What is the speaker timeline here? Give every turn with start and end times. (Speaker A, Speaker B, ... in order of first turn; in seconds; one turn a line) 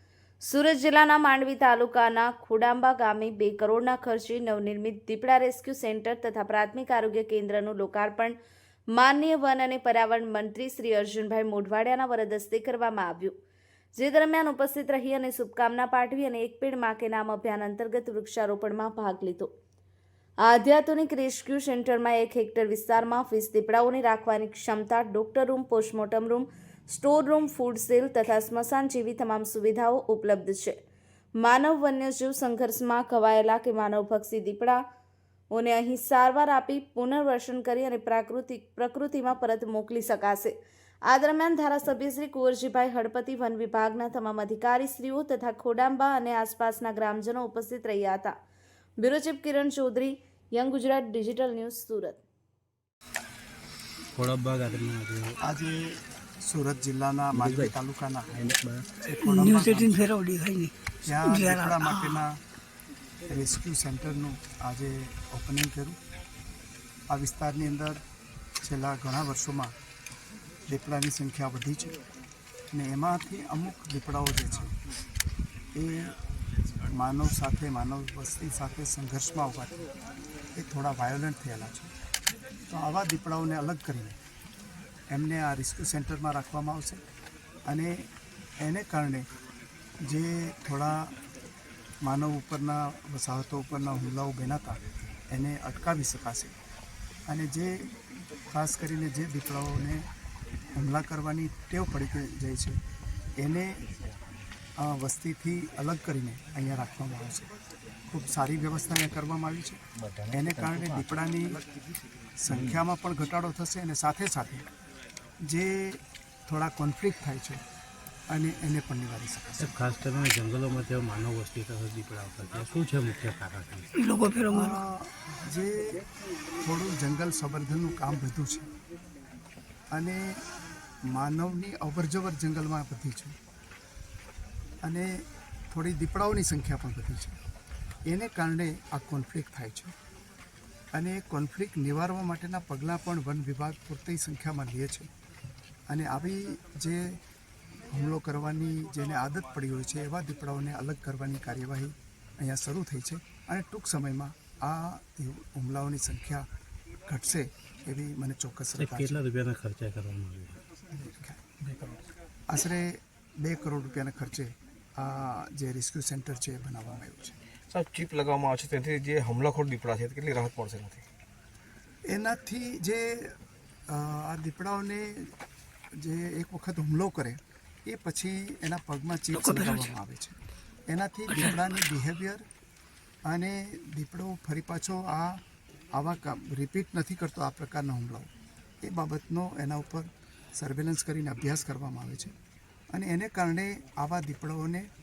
Speaker A: 0.4-8.3
Speaker A: 8.9-13.3
Speaker A: 13.9-19.5
Speaker A: 20.4-30.8
Speaker A: 31.4-34.8
Speaker A: 35.5-40.5
Speaker A: 41.1-48.3
Speaker A: 49.0-52.2
Speaker B: 54.1-55.4
Speaker C: 55.4-58.4
Speaker D: 57.3-57.7
Speaker C: 59.0-60.0
Speaker E: 59.2-62.2
Speaker C: 61.0-62.4
Speaker C: 63.2-66.0
Speaker C: 67.1-68.0
Speaker C: 68.6-69.7
Speaker C: 70.7-72.0
Speaker C: 72.7-74.8
Speaker C: 75.7-76.2
Speaker C: 76.9-79.8
Speaker C: 80.5-81.9
Speaker C: 82.7-84.2
Speaker C: 85.1-87.0
Speaker C: 87.7-88.1
Speaker C: 88.6-89.3
Speaker C: 90.0-91.1
Speaker C: 92.0-96.5
Speaker C: 97.3-100.1
Speaker C: 100.7-102.8
Speaker C: 103.4-103.8
Speaker C: 104.8-107.5
Speaker C: 108.1-111.6
Speaker D: 110.0-111.3
Speaker C: 112.4-114.7
Speaker D: 112.5-112.8
Speaker C: 115.4-117.6
Speaker C: 118.3-119.7
Speaker B: 119.6-123.9
Speaker E: 123.9-124.8
Speaker C: 124.5-126.0
Speaker C: 126.6-128.7
Speaker C: 129.9-130.4
Speaker C: 131.1-133.3
Speaker C: 134.8-137.4
Speaker C: 138.1-139.9
Speaker C: 140.9-145.1
Speaker C: 145.9-147.2
Speaker C: 147.9-156.5
Speaker C: 157.1-159.2
Speaker B: 158.8-160.6
Speaker C: 160.9-161.4
Speaker C: 162.5-167.4
Speaker D: 167.7-171.0
Speaker C: 172.1-175.4
Speaker C: 175.9-182.4
Speaker E: 179.3-179.9
Speaker C: 183.3-188.3
Speaker C: 188.8-192.3
Speaker C: 192.9-194.9